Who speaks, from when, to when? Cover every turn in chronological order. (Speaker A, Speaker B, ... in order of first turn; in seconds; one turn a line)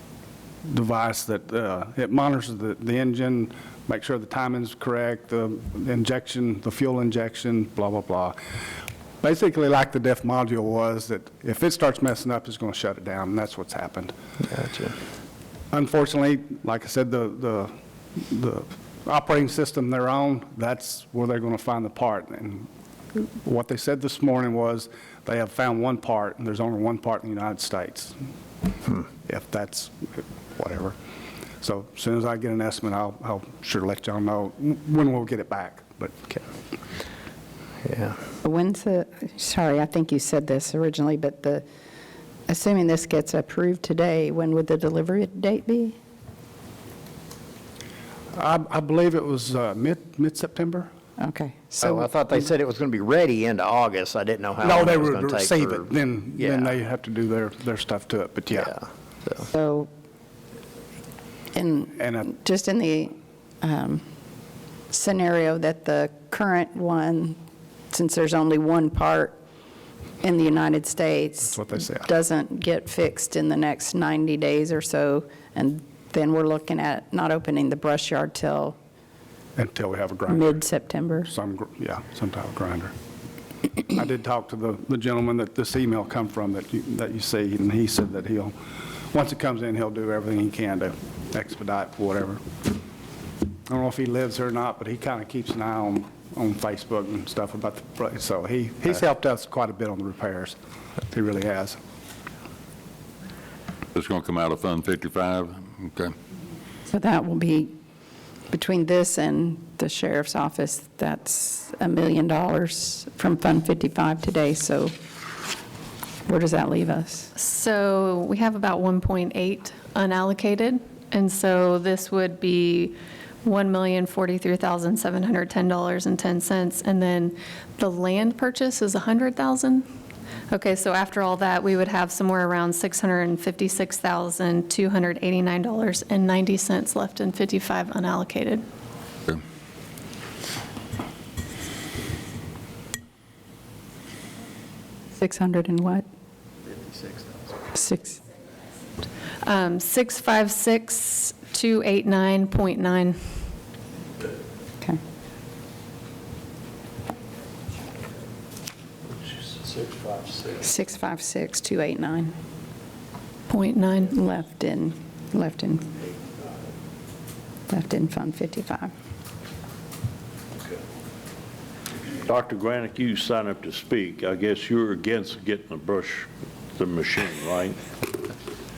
Speaker A: 0.6-8.4
Speaker A: 9.2-14.1
Speaker B: 14.5-14.9
Speaker A: 15.7-28.2
Speaker A: 29.2-30.9
Speaker A: 31.6-36.4
Speaker B: 37.8-38.2
Speaker C: 38.4-41.6
Speaker C: 42.5-46.0
Speaker A: 48.3-50.9
Speaker C: 51.2-52.1
Speaker B: 51.8-56.7
Speaker A: 54.6-58.8
Speaker B: 58.5-59.4
Speaker C: 59.5-59.9
Speaker C: 61.5-64.0
Speaker A: 62.0-62.3
Speaker C: 64.9-67.4
Speaker C: 67.9-69.4
Speaker C: 70.2-78.8
Speaker A: 71.5-72.1
Speaker A: 79.6-80.6
Speaker C: 80.3-81.3
Speaker A: 81.2-82.9
Speaker A: 83.9-88.5
Speaker A: 89.1-92.4
Speaker A: 93.7-100.6
Speaker A: 101.1-101.8
Speaker D: 103.9-106.1
Speaker C: 106.9-107.7
Speaker C: 108.5-115.0
Speaker C: 116.3-117.3
Speaker E: 117.3-129.8
Speaker E: 130.5-138.6
Speaker C: 145.2-146.0
Speaker C: 147.7-148.2
Speaker E: 149.4-153.2
Speaker F: 159.5-160.5
Speaker C: 160.6-162.3
Speaker E: 163.5-164.1
Speaker C: 164.1-165.8
Speaker C: 167.7-168.9
Speaker F: 172.2-177.9